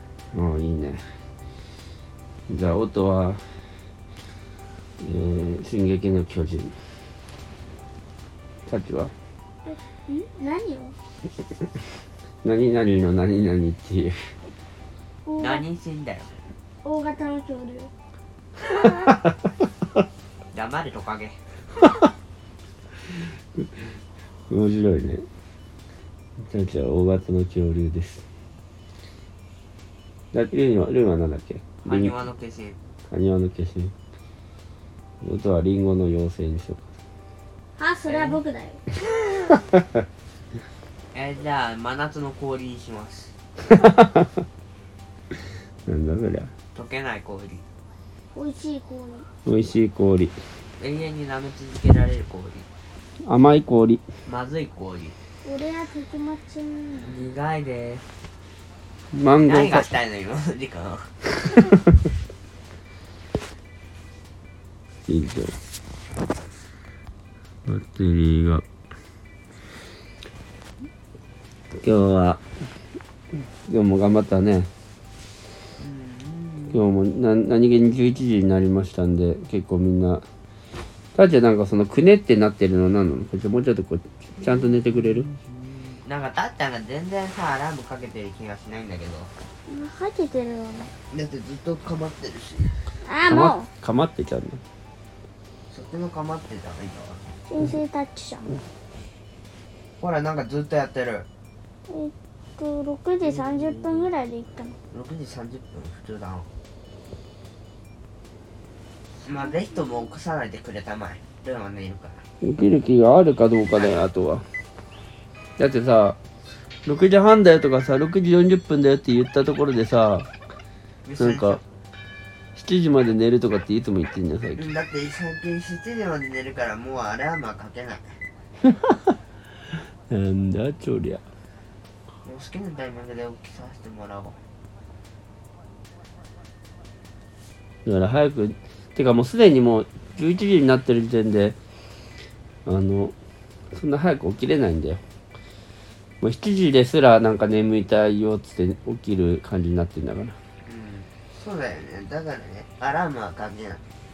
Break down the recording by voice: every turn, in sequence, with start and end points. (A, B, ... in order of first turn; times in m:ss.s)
0:00.3-0:01.0 A
0:02.5-0:03.4 A
0:05.0-0:06.8 A
0:08.7-0:09.1 A
0:09.6-0:10.9 B
0:12.4-0:14.3 A
0:15.2-0:15.6 B
0:15.4-0:16.3 C
0:16.8-0:17.9 B
0:20.5-0:21.4 C
0:24.5-0:25.2 A
0:26.4-0:28.2 A
0:30.3-0:32.1 A
0:31.8-0:32.8 C
0:33.1-0:33.9 A
0:35.2-0:36.8 A
0:37.8-0:38.8 B
0:38.0-0:38.4 C
0:41.1-0:43.3 C
0:43.7-0:44.2 A
0:45.9-0:46.5 A
0:46.7-0:47.6 C
0:48.3-0:49.2 B
0:49.4-0:50.4 A
0:50.8-0:52.6 C
0:53.2-0:54.0 A
0:54.2-0:55.2 C
0:55.4-0:57.2 B
0:57.0-0:58.0 C
0:59.1-0:59.9 A
0:59.4-1:01.2 C
1:05.1-1:05.6 A
1:07.6-1:08.6 A
1:11.7-1:12.4 A
1:13.7-1:14.7 A
1:15.8-1:16.8 C
1:16.7-1:20.2 A
1:21.1-1:25.3 A
1:26.0-1:29.3 C
1:29.7-1:30.9 B
1:31.1-1:32.7 C
1:33.0-1:33.7 B
1:33.3-1:34.6 A
1:35.7-1:37.2 C
1:37.5-1:38.6 B
1:40.0-1:41.2 C
1:41.9-1:44.8 B
1:43.6-1:44.0 C
1:44.9-1:46.5 C
1:49.2-1:52.2 C
1:52.4-1:54.4 A
1:55.6-1:56.2 A
1:56.8-2:00.3 A
2:01.0-2:01.6 C
2:01.2-2:01.6 A
2:02.5-2:04.6 A
2:04.5-2:08.2 C
2:10.1-2:11.2 A
2:12.2-2:14.4 C
2:17.8-2:21.6 A
2:22.6-2:23.1 A
2:23.7-2:25.0 A
2:26.2-2:30.4 A
2:30.6-2:33.8 C